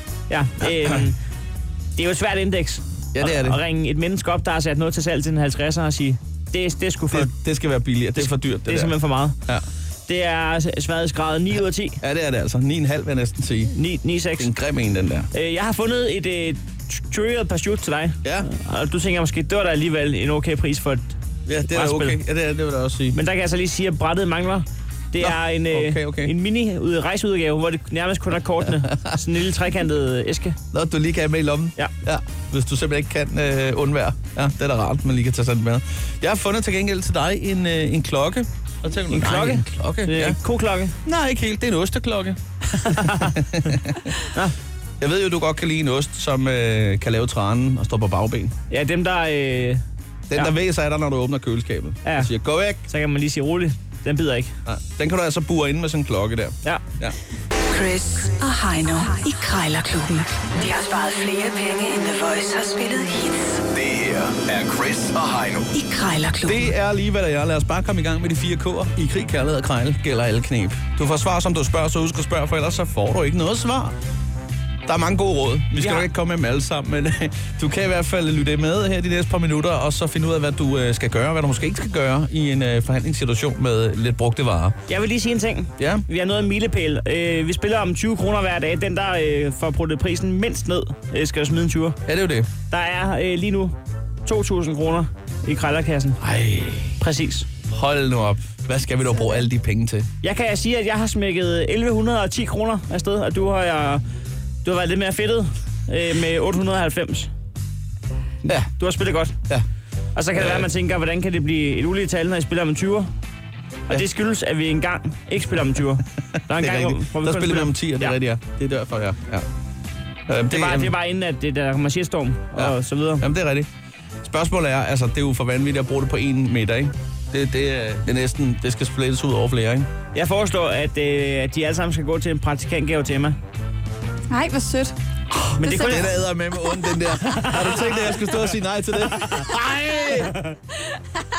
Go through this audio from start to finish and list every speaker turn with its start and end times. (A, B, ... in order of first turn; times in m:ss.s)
0:00.3-0:01.2 A
0:00.7-0:01.0 B
0:02.0-0:07.3 A
0:03.1-0:03.6 B
0:07.1-0:09.0 B
0:08.2-0:09.4 A
0:10.1-0:12.0 A
0:12.0-0:13.7 B
0:13.7-0:14.5 A
0:14.4-0:15.3 B
0:15.3-0:21.1 A
0:18.2-0:18.5 B
0:21.5-0:23.2 B
0:21.7-0:22.2 A
0:23.1-0:30.6 A
0:25.2-0:26.3 B
0:28.8-0:29.1 B
0:30.7-0:40.4 B
0:39.1-0:41.0 A
0:41.0-0:44.2 B
0:42.7-0:43.4 A
0:44.3-0:44.6 A
0:45.0-0:48.6 B
0:48.7-0:49.8 A
0:50.3-0:52.8 B
0:52.0-0:52.3 A
0:52.8-0:54.5 A
0:54.7-0:57.2 B
0:57.7-1:03.6 C
1:03.7-1:05.7 D
1:05.7-1:06.7 C
1:06.4-1:14.0 B
1:14.9-1:24.8 B
1:15.7-1:16.1 A
1:24.9-1:32.0 A
1:25.8-1:26.0 B
1:32.1-1:32.5 B
1:32.7-1:36.2 A
1:36.2-1:37.0 B
1:37.0-1:37.5 A
1:37.7-1:40.1 B
1:40.2-1:44.0 A
1:44.6-1:47.3 A
1:48.4-1:48.7 B
1:48.8-1:49.4 A
1:50.2-1:53.1 A
1:50.3-1:50.7 B
1:53.9-1:58.2 A
1:56.5-1:59.5 B
2:00.3-2:00.9 B
2:00.5-2:03.3 A
2:02.6-2:03.7 B
2:04.2-2:09.9 B
2:10.1-2:13.4 A
2:14.3-2:15.0 E
2:15.6-2:16.1 A
2:15.6-2:17.0 E
2:15.6-2:20.4 B
2:17.2-2:18.3 A
2:19.1-2:19.5 A
2:20.2-2:20.6 A